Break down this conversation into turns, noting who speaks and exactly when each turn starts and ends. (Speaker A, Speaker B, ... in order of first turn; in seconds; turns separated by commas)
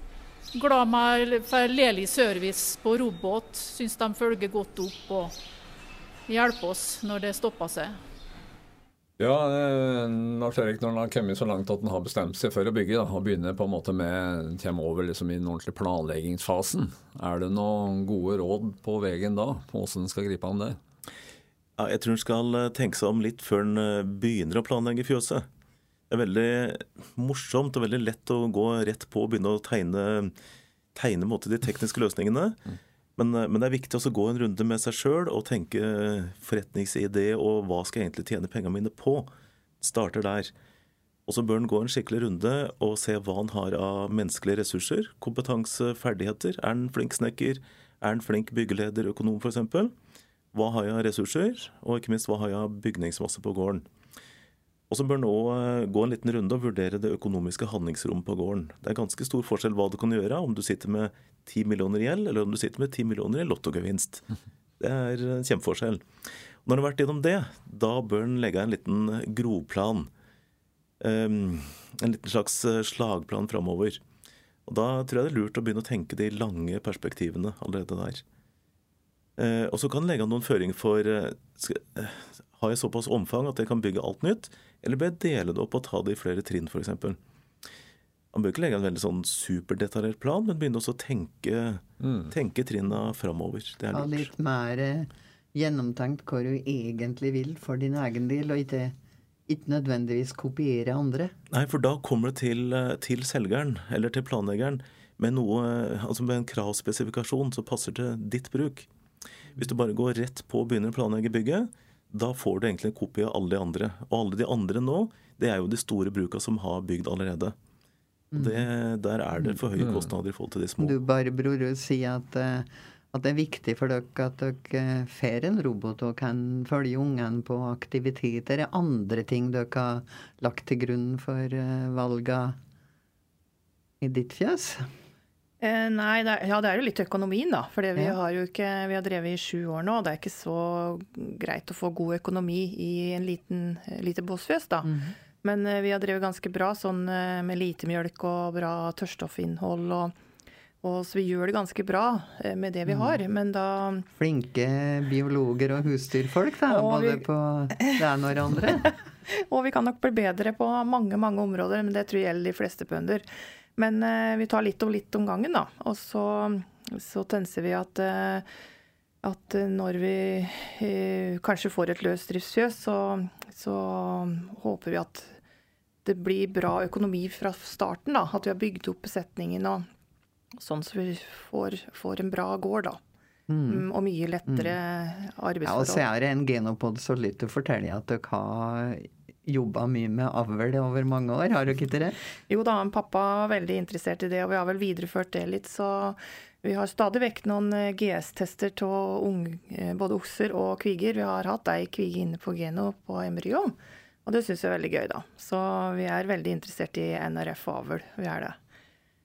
Speaker A: 0.5-5.3, Speaker A: 6.3-8.0, Speaker B: 9.2-20.8, Speaker C: 21.8-25.5, Speaker C: 26.1-30.3, Speaker C: 30.9-32.6, Speaker C: 33.2-39.3, Speaker C: 39.8-40.5, Speaker C: 41.3-49.9, Speaker C: 50.5-53.9, Speaker C: 54.9-64.2, Speaker C: 64.8-66.1, Speaker C: 66.6-70.1, Speaker C: 71.0-74.0, Speaker C: 74.7-78.2, Speaker C: 79.4-87.2, Speaker C: 88.3-94.3, Speaker B: 92.0-92.3, Speaker D: 93.9-98.9, Speaker D: 99.5-101.3, Speaker C: 101.5-108.9, Speaker C: 109.5-117.5, Speaker D: 118.3-118.7, Speaker C: 118.3-121.0, Speaker B: 119.8-120.1, Speaker D: 120.8-132.6, Speaker D: 134.0-134.9, Speaker E: 135.6-150.1, Speaker D: 144.8-145.1, Speaker E: 150.8-154.1, Speaker D: 152.9-153.1, Speaker D: 154.2-158.9, Speaker E: 156.7-157.2, Speaker E: 158.8-168.4, Speaker E: 169.2-175.4, Speaker E: 176.0-179.8, Speaker E: 180.6-183.0, Speaker D: 183.5-183.8, Speaker E: 183.7-186.0, Speaker D: 185.6-192.2, Speaker E: 192.5-208.6